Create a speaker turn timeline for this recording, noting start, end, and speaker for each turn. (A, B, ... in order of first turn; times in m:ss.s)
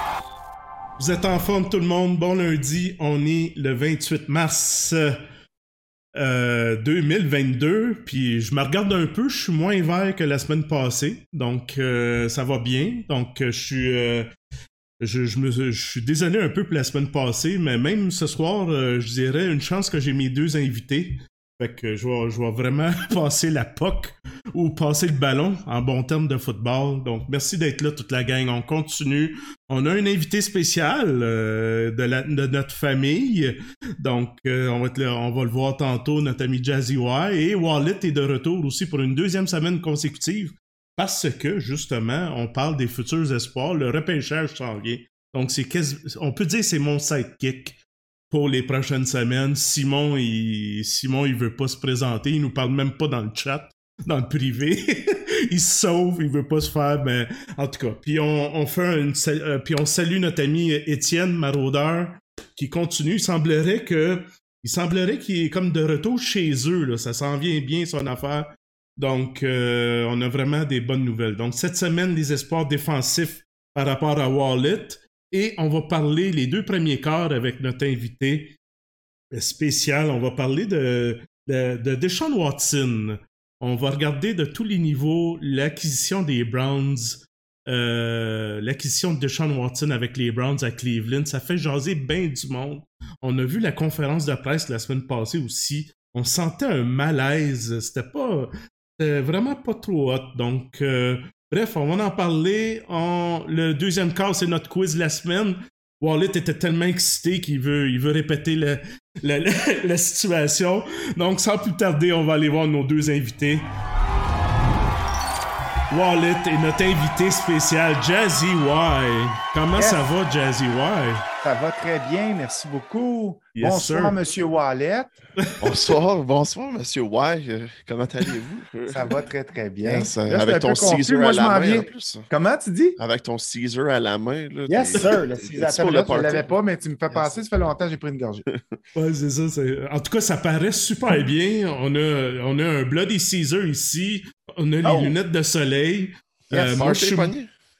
0:01.0-0:05.2 A
0:06.1-0:14.3 A
0:15.0-0:47.8 A
0:48.3-1:18.6 A
1:19.3-1:53.7 A
1:55.9-2:01.2 A
2:01.4-2:05.1 B
2:03.6-2:04.1 A
2:05.4-2:05.7 A
2:05.6-2:09.1 C
2:08.9-2:13.0 B
2:09.8-2:12.3 C
2:13.0-2:16.5 C
2:14.7-2:18.4 B
2:18.9-2:27.3 A
2:24.8-2:25.1 B
2:26.5-2:26.9 B
2:26.7-2:27.5 C